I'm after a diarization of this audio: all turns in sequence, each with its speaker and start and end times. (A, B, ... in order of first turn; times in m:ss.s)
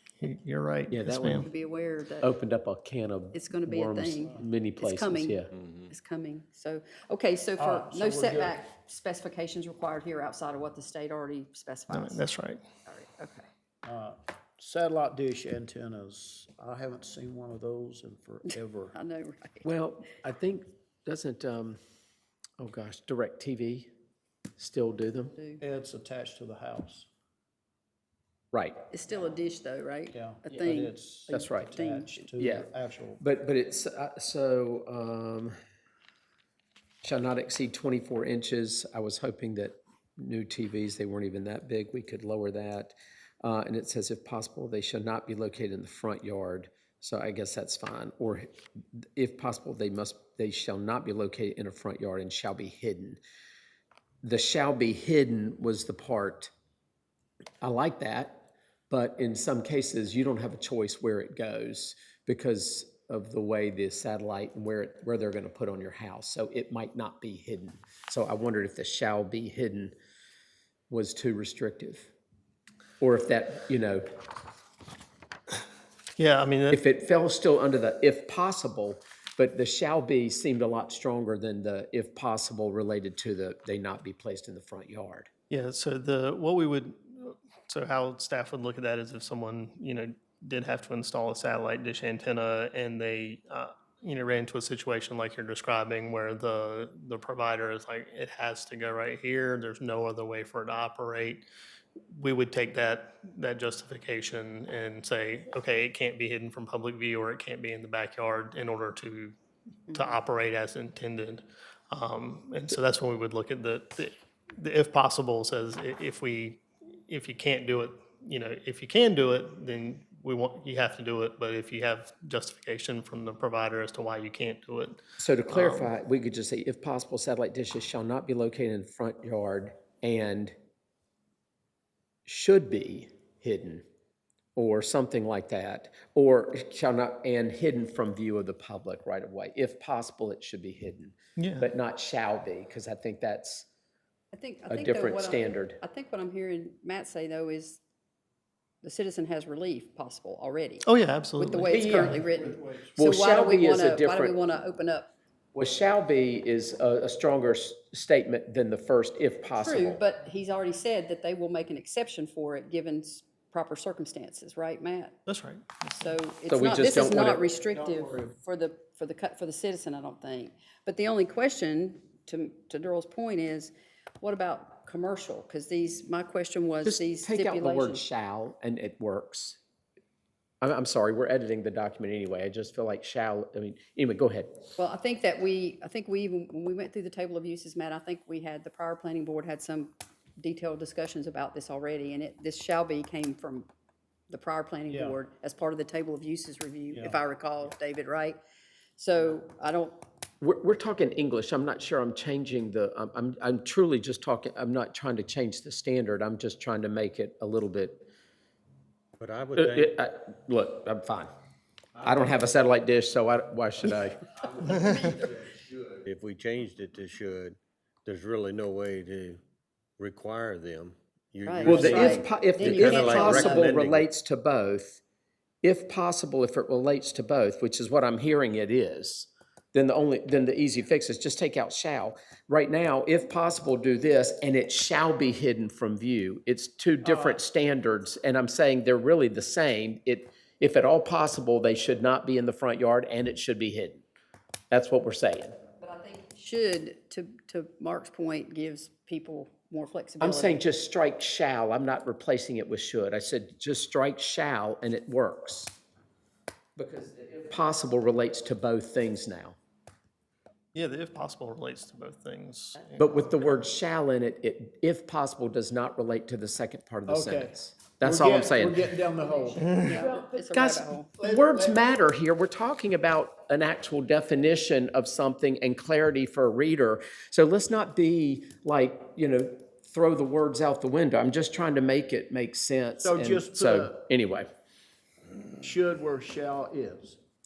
0:00.2-0:01.5 A
0:00.9-0:01.5 B
0:01.4-0:02.3 C
0:02.2-0:05.5 B
0:03.3-0:12.2 C
0:07.6-0:08.5 D
0:11.9-0:12.6 A
0:12.8-0:13.5 C
0:13.8-0:18.9 D
0:18.9-0:19.7 C
0:19.6-0:21.8 B
0:22.6-0:23.9 B
0:24.6-0:25.4 B
0:25.3-0:25.6 C
0:25.6-0:27.1 D
0:28.5-0:28.8 B
0:28.9-0:32.2 C
0:30.1-0:33.2 D
0:31.3-0:31.8 B
0:32.4-0:32.7 B
0:33.2-0:35.5 B
0:37.0-0:48.5 B
0:49.2-0:53.2 B
0:54.2-0:56.5 B
0:57.6-1:09.9 B
1:10.9-1:12.1 B
1:13.0-1:14.0 B
1:16.2-1:16.8 A
1:16.7-1:25.3 B
1:25.5-1:41.4 A
1:42.1-1:49.3 A
1:49.9-2:05.9 A
2:05.2-2:10.5 B
2:12.2-2:13.8 B
2:14.6-2:23.7 B
2:21.4-2:21.7 A
2:24.3-2:27.8 C
2:24.7-2:25.8 B
2:28.8-2:30.8 C
2:30.8-2:32.2 A
2:31.4-2:35.1 C
2:31.7-2:32.2 B
2:32.4-2:32.9 D
2:33.0-2:34.4 B
2:35.5-2:40.0 B
2:39.5-2:45.2 C
2:45.2-2:46.0 A
2:45.9-2:58.0 C
2:46.5-2:47.4 B
2:56.8-2:59.6 B
3:00.6-3:04.6 B
3:04.8-3:13.7 C
3:14.3-3:18.4 C
3:14.9-3:15.2 D
3:16.9-3:17.2 D
3:19.0-3:20.0 C
3:20.4-3:28.1 B
3:29.2-3:29.9 E
3:29.6-3:31.3 B
3:32.0-3:34.2 B
3:34.7-3:39.4 E
3:40.0-3:44.1 E
3:41.4-3:43.7 C
3:41.6-3:45.0 B
3:45.6-4:04.0 B
3:57.0-3:57.4 D
4:04.7-4:05.5 B
4:05.8-4:10.6 C
4:10.2-4:15.7 B
4:16.8-4:19.6 B
4:20.7-4:23.4 A
4:23.0-4:28.9 B
4:27.0-4:30.4 D
4:29.2-4:31.1 C
4:30.4-4:44.5 B
4:31.2-4:31.8 D
4:43.0-4:44.0 D
4:45.6-4:47.2 D